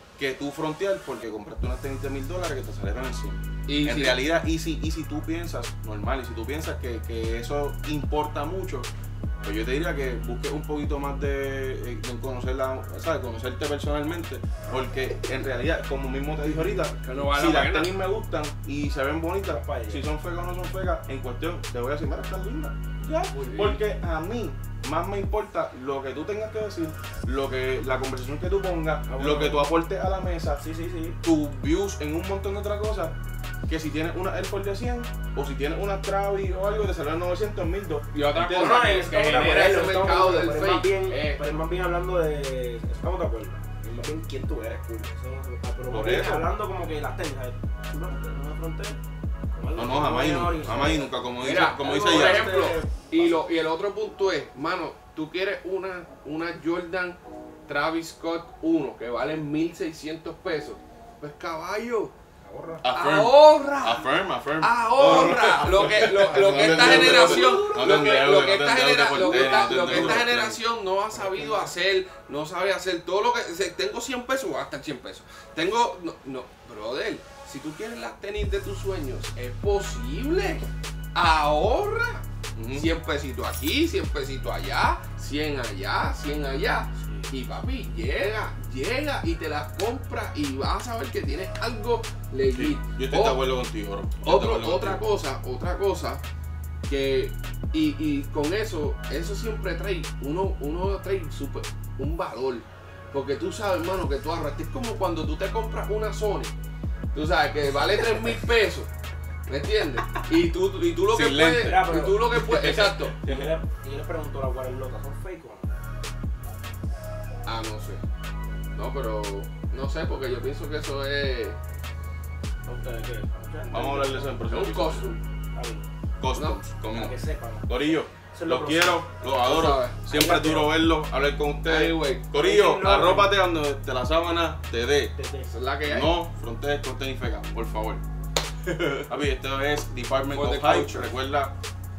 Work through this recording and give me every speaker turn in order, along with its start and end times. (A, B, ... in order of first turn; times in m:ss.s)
0:00.2-0:08.9 A
0:03.7-0:04.2 B
0:09.4-0:30.6 A
0:17.0-0:17.9 B
0:19.4-0:20.0 C
0:23.3-0:23.8 B
0:29.1-0:29.7 C
0:30.6-0:31.2 C
0:31.2-0:33.2 A
0:33.7-0:38.9 A
0:38.1-0:41.4 B
0:38.5-0:49.0 C
0:45.9-0:46.5 A
0:49.5-0:51.1 C
0:49.8-0:52.5 A
0:51.4-1:02.1 B
0:51.6-0:53.4 C
1:02.4-1:02.9 C
1:02.8-1:10.6 A
1:02.9-1:33.4 B
1:05.7-1:07.6 C
1:09.2-1:10.3 C
1:11.1-1:11.7 C
1:22.6-1:22.9 A
1:32.5-1:35.0 A
1:34.2-1:36.2 B
1:36.9-1:46.5 B
1:47.1-1:48.9 B
1:49.5-1:53.2 B
1:51.1-1:51.8 A
1:51.6-1:52.4 C
1:52.3-1:53.5 A
1:53.2-1:55.7 C
1:57.4-1:58.0 B
1:58.8-2:01.6 B
2:02.6-2:04.5 C
2:03.7-2:05.1 A
2:04.5-2:05.2 B
2:05.5-2:05.9 C
2:06.2-2:15.1 A
2:06.3-2:06.6 B
2:06.9-2:09.0 C
2:09.4-2:10.0 B
2:10.0-2:10.7 C
2:11.6-2:12.2 B
2:12.4-2:13.3 C
2:15.2-2:15.5 C
2:15.5-2:16.2 B
2:15.8-2:18.0 A
2:19.1-2:21.5 A
2:20.3-2:21.1 B